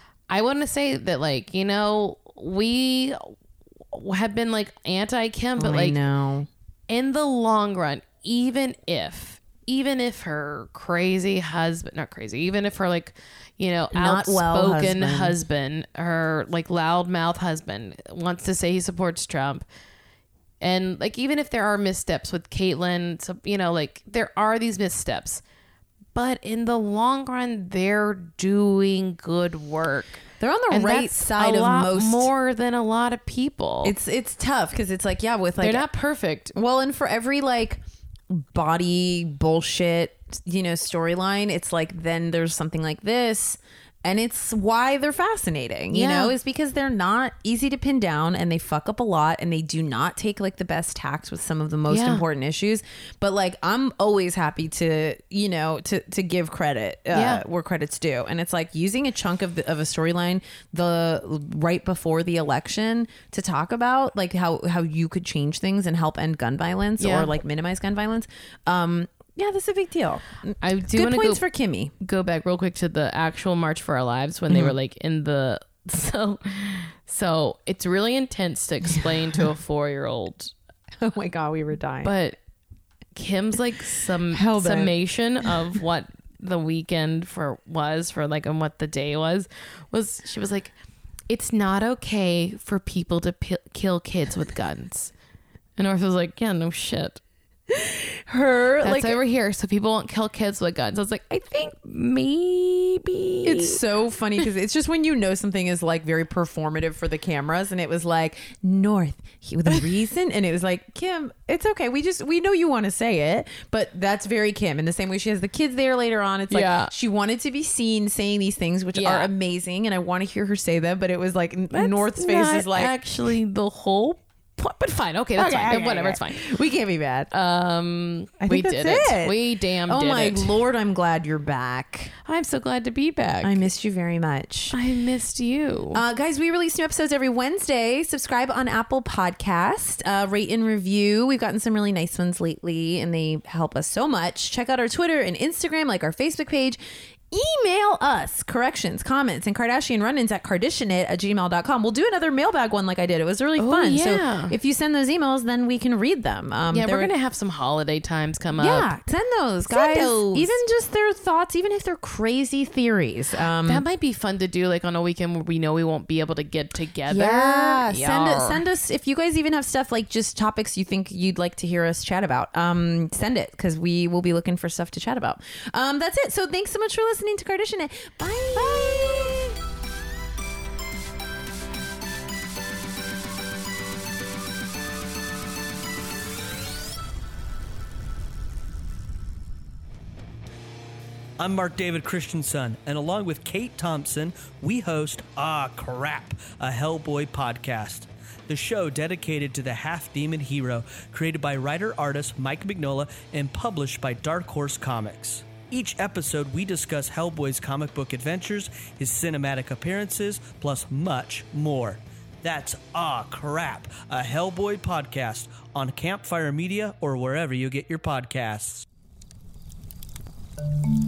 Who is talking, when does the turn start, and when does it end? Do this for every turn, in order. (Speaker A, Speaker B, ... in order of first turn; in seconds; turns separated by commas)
Speaker A: 0.3-3.3, Speaker A: 3.9-6.0, Speaker B: 5.6-6.5, Speaker A: 6.9-19.6, Speaker B: 13.9-15.4, Speaker A: 20.6-25.4, Speaker A: 26.1-33.9, Speaker B: 30.4-32.3, Speaker B: 33.8-35.9, Speaker A: 35.6-36.5, Speaker B: 36.5-71.9, Speaker A: 45.9-46.4, Speaker A: 51.9-52.2, Speaker A: 57.1-57.4, Speaker A: 67.0-67.3, Speaker A: 70.6-71.4, Speaker A: 72.0-80.5, Speaker B: 74.5-74.7, Speaker B: 81.0-82.1, Speaker A: 82.0-82.4, Speaker A: 83.1-90.7, Speaker B: 84.3-85.6, Speaker A: 91.3-95.1, Speaker A: 95.8-97.2, Speaker B: 97.7-99.2, Speaker A: 98.8-103.8, Speaker B: 103.4-122.9, Speaker A: 116.5-116.9, Speaker A: 118.9-119.3, Speaker A: 121.7-126.5, Speaker B: 125.4-127.3, Speaker A: 127.3-130.5, Speaker B: 128.4-132.1, Speaker A: 132.2-133.6, Speaker B: 133.4-134.8, Speaker A: 134.7-136.0, Speaker B: 135.9-146.8, Speaker B: 147.3-157.1, Speaker A: 153.6-154.5, Speaker A: 156.7-158.9, Speaker B: 158.6-163.8, Speaker A: 159.7-160.6, Speaker A: 163.7-168.6, Speaker B: 167.1-179.6, Speaker C: 191.4-218.8